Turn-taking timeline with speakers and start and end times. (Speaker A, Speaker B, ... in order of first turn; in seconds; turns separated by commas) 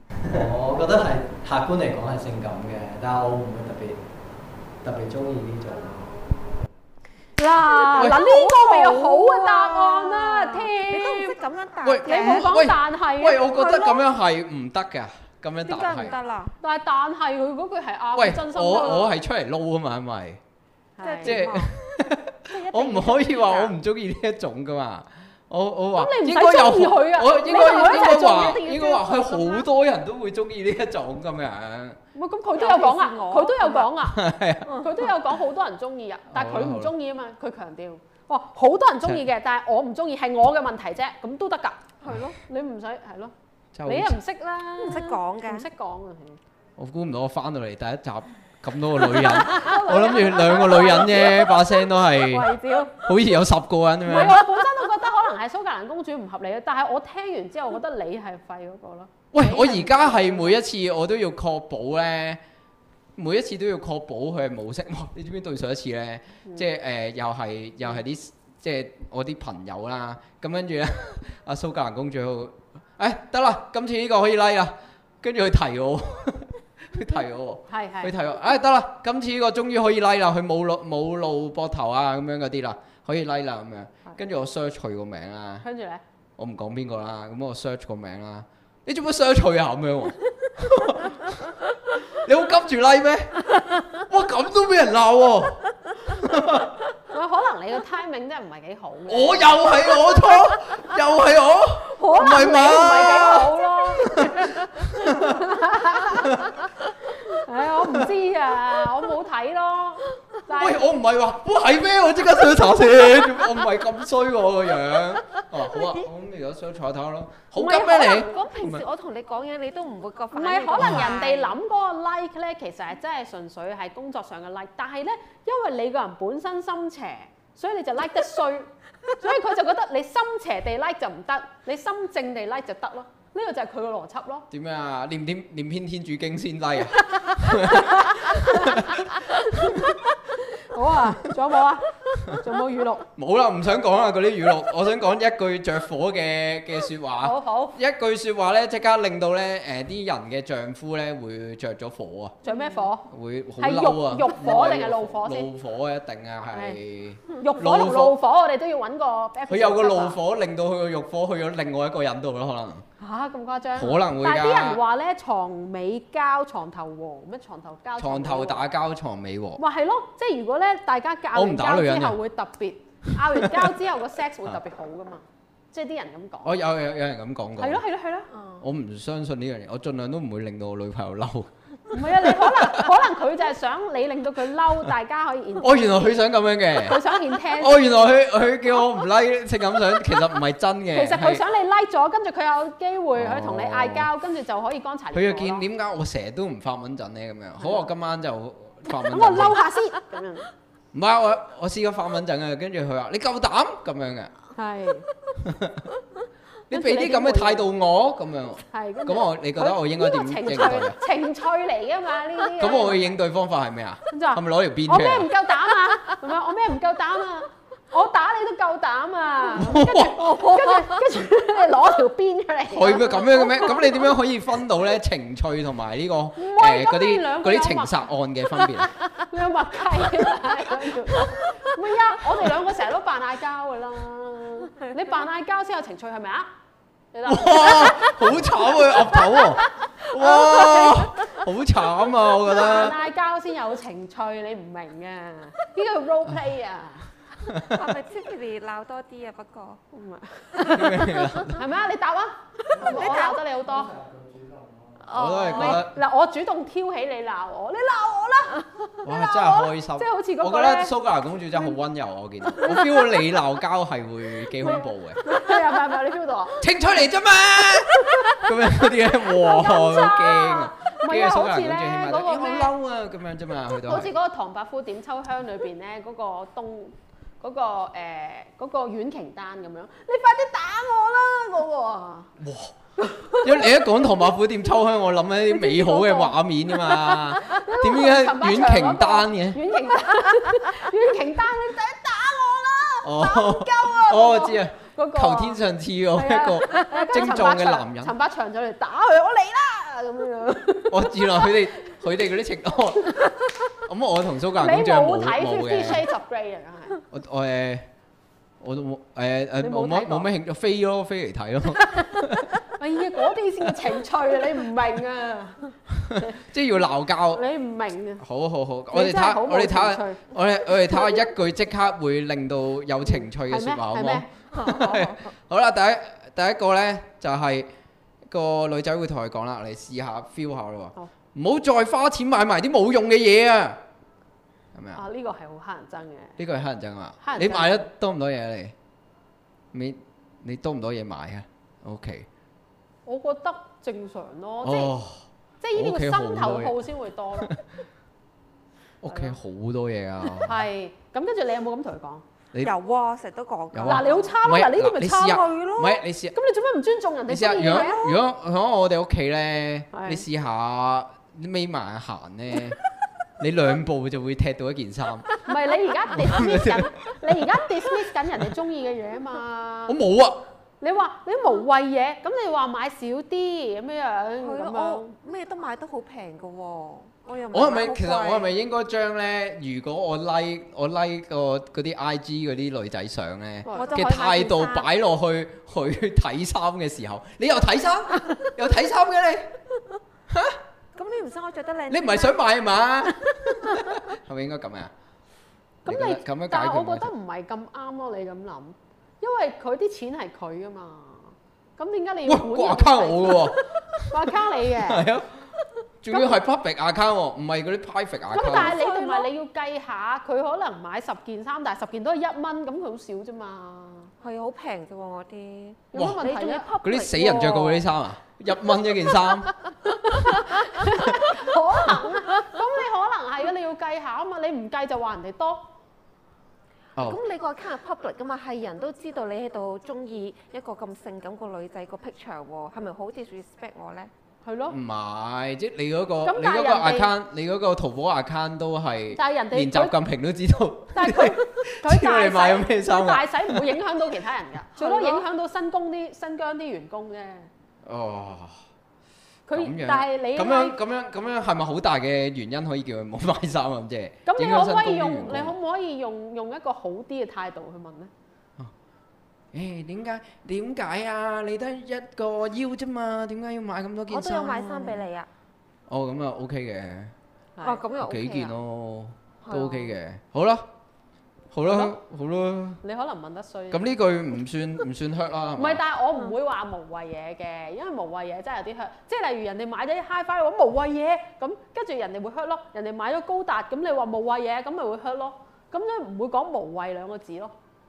Speaker A: 0.3-4.0, Speaker A: 4.8-6.4, Speaker B: 7.4-11.4, Speaker C: 7.6-12.6, Speaker D: 11.8-16.1, Speaker B: 12.0-13.8, Speaker C: 13.5-14.0, Speaker C: 15.7-16.5, Speaker B: 16.6-19.1, Speaker D: 18.1-20.4, Speaker B: 21.0-21.4, Speaker C: 21.0-21.9, Speaker D: 21.2-32.0, Speaker B: 22.5-23.7, Speaker B: 26.0-29.6, Speaker C: 27.5-28.9, Speaker B: 32.1-41.8, Speaker C: 32.5-33.9, Speaker D: 34.0-34.8, Speaker C: 34.7-35.0, Speaker D: 36.3-36.9, Speaker C: 42.0-42.4, Speaker B: 42.4-43.3, Speaker D: 43.7-44.2, Speaker B: 43.8-46.4, Speaker C: 44.8-45.7, Speaker D: 46.8-54.4, Speaker B: 49.1-53.1, Speaker B: 54.0-60.6, Speaker D: 59.3-62.4, Speaker D: 63.1-85.7, Speaker B: 77.7-78.1, Speaker B: 85.6-86.0, Speaker D: 86.4-96.8, Speaker B: 97.1-99.8, Speaker D: 99.1-105.5, Speaker B: 101.8-110.8, Speaker D: 106.1-106.6, Speaker D: 107.7-108.1, Speaker D: 110.5-118.8, Speaker C: 113.1-113.5, Speaker C: 115.2-116.0, Speaker B: 117.5-118.5, Speaker C: 117.9-121.5, Speaker B: 120.3-134.5, Speaker D: 120.8-121.1, Speaker D: 134.5-139.9, Speaker B: 137.1-143.1, Speaker D: 143.2-152.4, Speaker B: 147.2-147.8, Speaker B: 152.4-155.5, Speaker D: 153.0-158.2, Speaker B: 156.5-156.8, Speaker B: 157.3-160.2, Speaker D: 159.5-162.8, Speaker B: 163.0-168.7, Speaker D: 163.8-164.8, Speaker D: 168.0-169.6, Speaker B: 169.6-176.6, Speaker D: 171.3-172.2, Speaker D: 173.1-173.7, Speaker D: 176.4-177.8, Speaker B: 177.6-178.3, Speaker C: 178.3-178.6, Speaker D: 178.6-182.9, Speaker B: 181.9-186.2, Speaker D: 185.6-187.0, Speaker B: 186.7-188.1, Speaker D: 187.6-191.4, Speaker B: 190.9-195.7, Speaker D: 193.1-194.1, Speaker D: 195.1-199.6, Speaker B: 197.6-197.8, Speaker B: 199.0-200.5, Speaker D: 200.9-204.3, Speaker B: 204.5-205.1, Speaker D: 205.4-205.9, Speaker D: 206.7-211.0, Speaker B: 206.7-207.7, Speaker B: 208.7-213.1, Speaker D: 212.6-215.3, Speaker B: 214.1-224.1, Speaker D: 219.5-220.4, Speaker C: 220.2-220.8, Speaker D: 222.7-228.9, Speaker B: 226.3-236.5, Speaker B: 237.1-241.0, Speaker D: 237.3-243.0, Speaker B: 242.3-247.1, Speaker D: 247.5-247.8, Speaker C: 247.5-249.8, Speaker B: 249.9-253.9, Speaker D: 250.6-251.7, Speaker A: 252.7-255.2, Speaker C: 252.8-253.4, Speaker C: 255.0-255.8, Speaker D: 255.1-255.9, Speaker B: 255.5-260.9, Speaker D: 259.0-265.2, Speaker B: 262.5-263.3, Speaker B: 264.6-266.6, Speaker D: 266.6-274.1, Speaker B: 267.9-272.7, Speaker B: 273.7-282.3, Speaker D: 282.4-282.7, Speaker B: 283.0-283.8, Speaker D: 283.4-289.7, Speaker B: 285.5-295.6, Speaker D: 293.0-298.1, Speaker B: 296.1-302.0, Speaker D: 300.9-303.2, Speaker D: 303.8-306.0, Speaker B: 304.6-307.0, Speaker D: 307.1-307.9, Speaker D: 308.6-312.5, Speaker B: 309.6-310.3, Speaker B: 311.9-316.4, Speaker D: 316.0-317.4, Speaker B: 317.3-318.2, Speaker D: 318.2-327.7, Speaker B: 318.9-321.3, Speaker B: 323.0-325.1, Speaker C: 324.5-325.1, Speaker D: 328.3-333.8, Speaker D: 334.7-335.0, Speaker B: 334.9-336.4, Speaker D: 336.4-338.7, Speaker B: 337.2-337.8, Speaker D: 339.7-342.3, Speaker B: 343.1-344.9, Speaker D: 344.6-346.8, Speaker B: 345.6-347.5, Speaker D: 347.3-347.6, Speaker D: 349.0-350.6, Speaker B: 349.1-349.4, Speaker B: 350.3-352.2, Speaker C: 352.6-354.4, Speaker D: 353.7-356.4, Speaker B: 353.8-355.5, Speaker C: 355.1-356.0, Speaker B: 356.3-358.2, Speaker D: 357.3-362.8, Speaker B: 359.9-360.2, Speaker D: 363.4-365.3, Speaker B: 365.4-370.0, Speaker D: 366.1-367.5, Speaker D: 369.9-370.4, Speaker B: 370.8-375.1, Speaker C: 374.4-378.5, Speaker D: 377.5-389.6, Speaker B: 383.6-384.0, Speaker C: 383.7-384.9, Speaker D: 390.3-390.6, Speaker C: 390.9-392.4, Speaker D: 391.9-394.9, Speaker C: 393.0-394.0, Speaker B: 395.8-405.1, Speaker D: 395.9-397.1, Speaker D: 402.2-405.3, Speaker D: 406.0-408.8, Speaker B: 408.3-414.1, Speaker C: 408.4-409.3, Speaker C: 414.2-417.8, Speaker B: 415.9-416.7, Speaker D: 416.8-419.5, Speaker B: 419.8-425.7, Speaker D: 426.9-427.2, Speaker C: 427.0-434.1, Speaker B: 434.4-434.7, Speaker D: 434.7-443.8, Speaker B: 436.2-437.1, Speaker B: 439.1-439.9, Speaker B: 440.9-447.5, Speaker C: 444.8-445.2, Speaker D: 447.8-448.6, Speaker B: 449.5-450.8, Speaker D: 449.5-455.5, Speaker B: 454.2-458.1, Speaker D: 459.5-465.0, Speaker C: 464.1-465.3, Speaker D: 465.9-467.1, Speaker B: 467.6-467.8, Speaker C: 467.6-468.5, Speaker D: 468.0-470.7, Speaker C: 469.4-469.9, Speaker D: 471.5-472.8, Speaker B: 472.8-473.9, Speaker D: 473.7-475.8, Speaker B: 475.6-487.5